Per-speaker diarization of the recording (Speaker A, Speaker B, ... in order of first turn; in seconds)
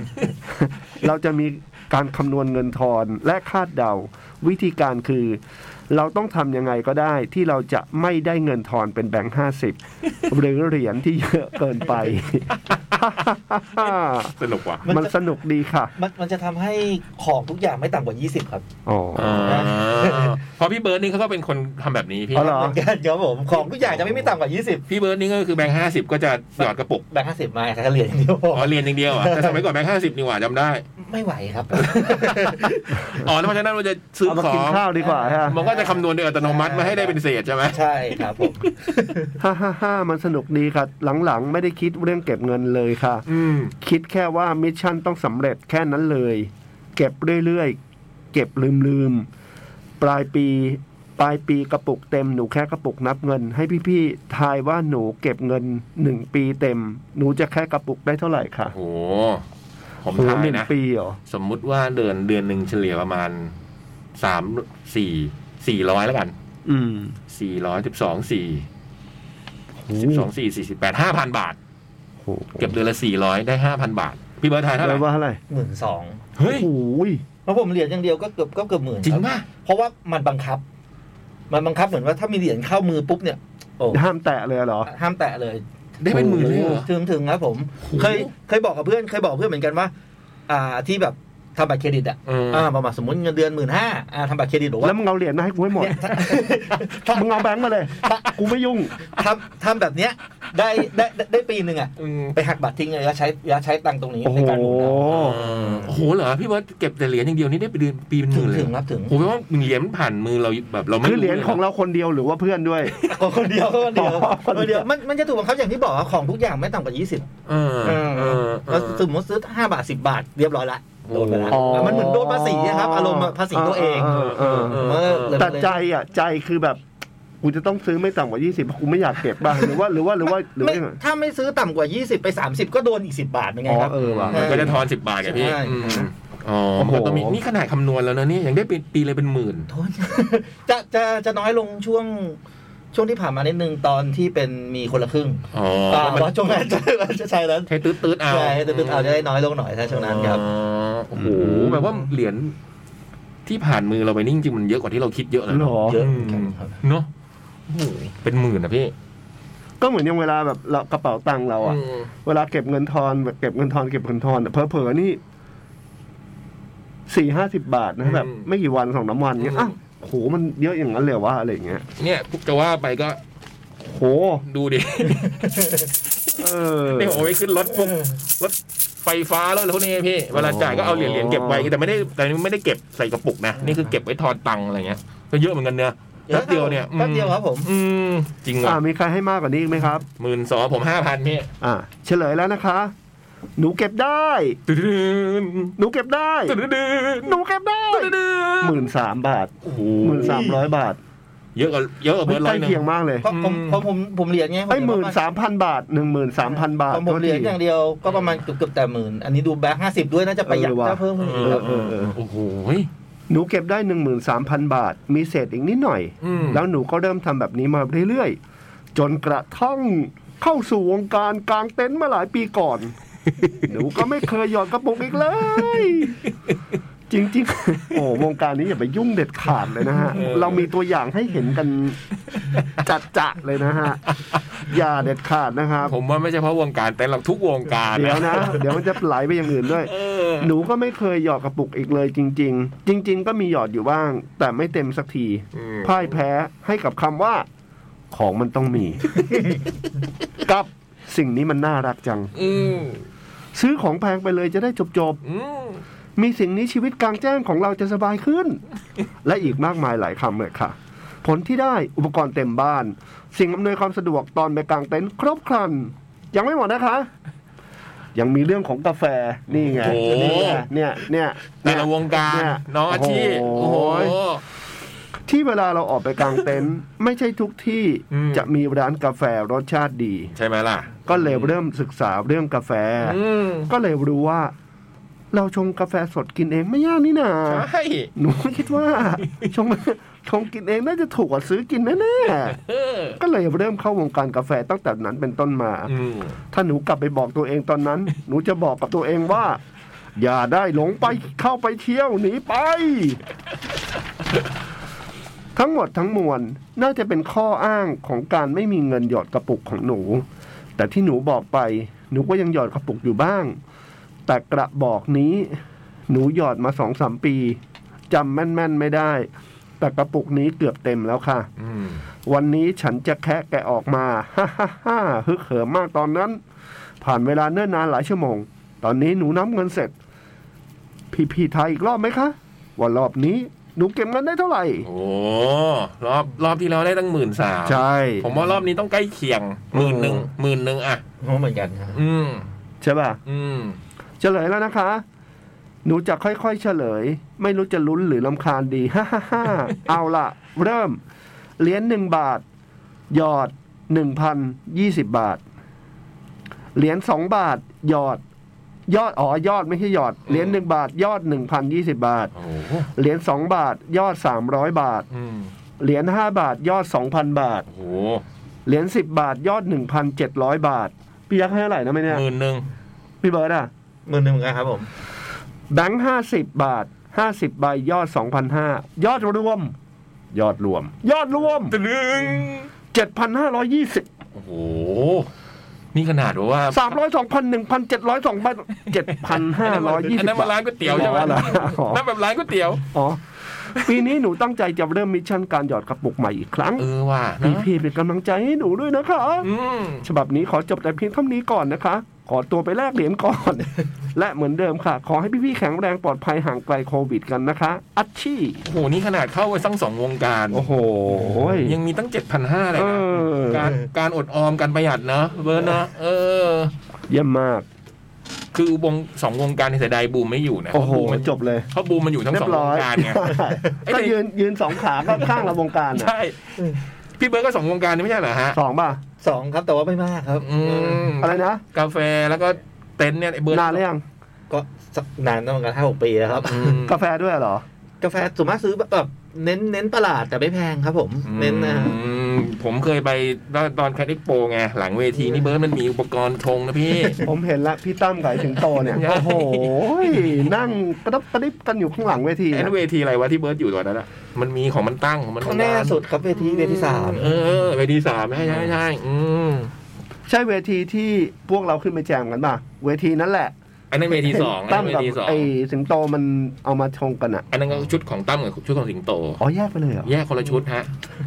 Speaker A: 0.5-15.9, 18.9-19.7, 22.3-22.8, 34.3-35.5, 39.4-43.2, 43.8-47.8, 48.3-49.3, 50.0-58.8, 60.2-61.2, 66.7-67.2, 69.8-70.3, 72.2-72.8, 74.8-75.4, 76.4-77.2, 83.9-84.9, 86.1-86.8, 94.8-96.4, 97.1-99.0, 104.2-105.4, 111.0-113.0, 114.0-114.9, 121.5-126.8, 127.4-131.0, 133.7-134.8, 136.8-137.4, 151.2-151.9, 155.5-156.0, 159.8-165.2, 167.1-171.9, 173.8-174.4, 176.4-177.3, 180.3-181.7, 188.6-190.1, 191.6-192.9, 193.6-194.6, 195.8-196.6, 197.2-201.0, 202.3-203.3, 204.7-207.6, 210.5-212.2, 213.3-218.4, 218.9-222.9, 223.6-226.2, 227.1-232.0, 232.7-234.0, 234.6-235.9, 237.9-247.5, 248.1-249.2, 250.4-252.3, 253.5-255.2, 256.2-258.6, 259.2-267.1, 268.1-274.2, 275.3-280.3, 281.1-284.5, 285.3-292.6, 293.2-295.9, 296.5-299.6, 300.2-303.2, 305.6-310.3, 310.8-313.6, 314.3-317.6, 318.1-319.3, 319.8-321.5, 322.2-326.4, 327.0-329.9, 331.1-334.9, 337.6-338.3, 339.7-340.3, 342.8-343.2, 344.2-345.0, 345.9-351.0, 351.6-352.4, 353.1-355.4, 356.8-358.2, 358.9-362.3, 362.9-365.1, 365.8-367.7, 368.7-372.2, 373.2-373.7, 375.7-379.7, 380.3-381.8, 382.9-384.1, 386.7-392.0, 392.9-393.2, 393.7-396.9, 397.4-399.5, 400.0-408.6, 410.5-411.8, 412.8-413.7, 417.1-417.7, 420.7-421.7, 422.3-426.1, 428.5-429.0, 431.2-431.6, 433.5-434.0, 436.8-437.6, 447.2-452.7, 460.3-463.5, 464.1-467.5, 469.4-470.1
Speaker B: 13.8-14.9, 19.2-22.8, 23.8-24.2, 24.9-27.1, 28.5-30.9, 31.8-34.9, 35.5-38.2, 43.3-43.7, 58.7-59.4, 60.0-60.7, 61.3-63.5, 64.2-66.3, 67.3-68.7, 70.0-71.6, 72.6-75.1, 76.4-76.7, 79.0-79.5, 86.0-86.9, 87.8-88.3, 92.3-92.7, 102.0-102.4, 105.1-111.6, 117.5-119.0, 121.1-122.1, 124.0-125.5, 134.0-139.7, 145.5-146.4, 147.7-149.3, 149.9-152.5, 153.5-157.1, 157.7-158.9, 161.6-162.1, 168.0-168.5, 169.4-169.7, 172.0-173.2, 174.5-188.8, 190.2-191.5, 194.7-195.8, 196.5-198.8, 199.6-200.6, 201.6-203.8, 211.2-212.9, 216.2-216.6, 230.1-230.7, 235.9-238.8, 239.8-240.5, 245.5-246.2, 252.3-253.0, 255.2-255.8, 269.5-270.7, 271.6-274.4, 278.1-278.5, 280.4-281.6, 283.0-283.7, 287.5-288.1, 292.5-293.2, 295.9-296.4, 321.6-322.0, 334.8-341.0, 341.9-342.5, 343.3-343.8, 360.3-360.6, 362.4-362.9, 365.1-365.5, 367.7-368.2, 372.1-372.7, 381.7-382.7, 384.4-385.3, 385.9-386.9, 389.2-392.8, 396.8-397.7, 399.4-400.1, 408.6-410.7, 411.3-416.7, 418.5-424.2, 424.8-428.6, 430.4-433.8, 436.4-437.0, 441.3-447.2, 448.6-450.5, 452.5-459.7, 463.9-465.5, 467.5-469.4, 470.1-470.9
Speaker C: 14.8-15.1, 16.0-18.6, 19.5-20.4, 22.4-24.8, 26.6-29.6, 31.0-33.2, 35.0-37.2, 37.7-39.3, 75.5-76.2, 77.5-80.6, 81.5-84.0, 84.9-89.9, 90.5-95.0, 95.8-98.3, 99.0-105.7, 108.3-109.2, 113.0-117.3, 117.8-125.8, 130.6-136.1, 139.7-142.4, 142.9-150.4, 155.9-156.8, 186.3-187.7, 203.2-205.2, 206.9-211.7, 341.2-342.0, 374.1-374.9, 429.2-431.1, 434.5-436.8, 438.0-442.0, 455.4-457.3